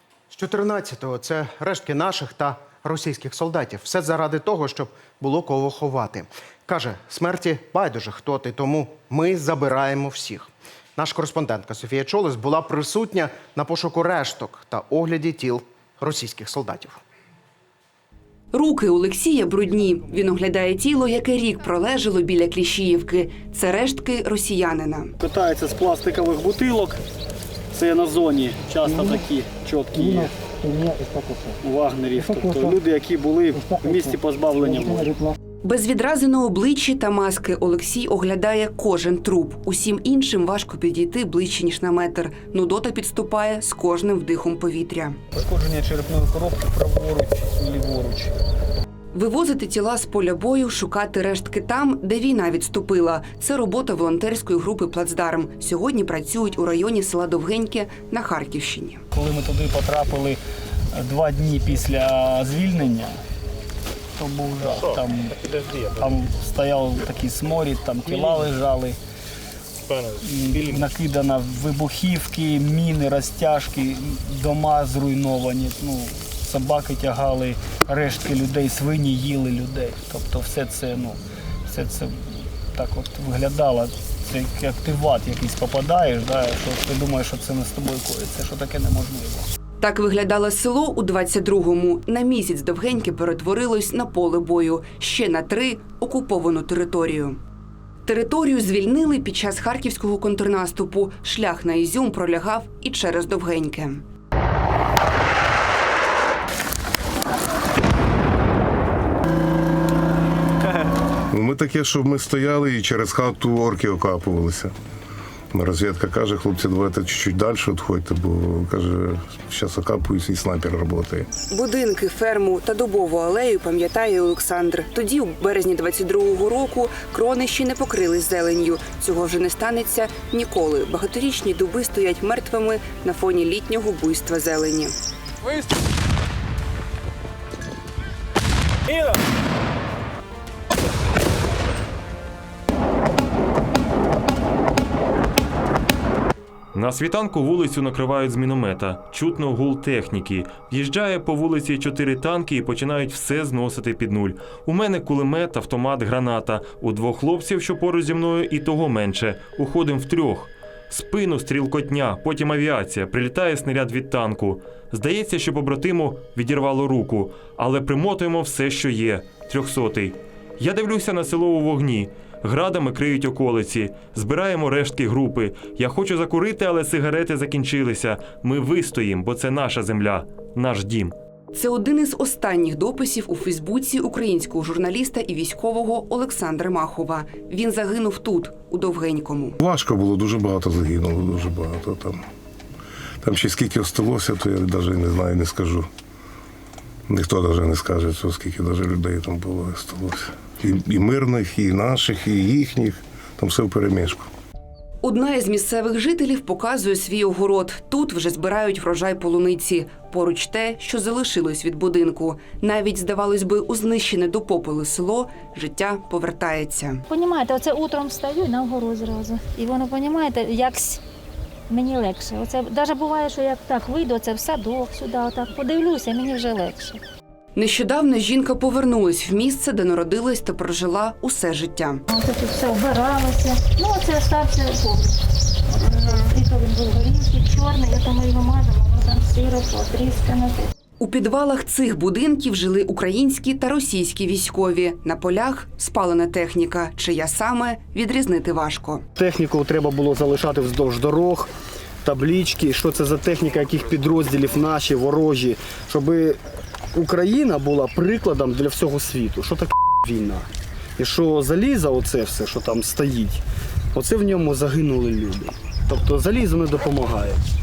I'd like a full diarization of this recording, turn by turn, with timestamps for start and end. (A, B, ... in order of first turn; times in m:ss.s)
0:00.3-0:17.0 A
0:18.5-0:25.1 B
0:25.2-0:27.0 C
0:27.7-0:30.4 C
0:31.6-0:35.2 C
0:35.6-0:45.2 B
0:45.3-0:48.4 C
0:49.1-0:59.0 B
0:59.1-1:00.4 C
1:00.9-1:03.2 C
1:04.2-1:05.4 C
1:06.0-1:09.0 C
1:10.2-1:29.5 C
1:29.8-1:37.4 B
1:38.0-1:44.0 B
1:51.3-1:54.7 D
1:55.5-2:01.3 D
2:01.5-2:14.9 B
2:26.7-3:01.1 E
3:01.5-3:09.6 B
3:09.6-3:12.2 D
3:13.2-3:15.9 D
3:17.1-3:24.3 D
3:25.0-3:37.0 B
3:37.1-3:41.0 F
3:41.7-3:47.0 F
3:47.5-3:52.0 B
3:52.1-3:55.2 F
3:55.7-4:00.7 F
4:01.0-4:09.0 B
4:09.2-4:16.4 C
4:16.9-4:27.4 C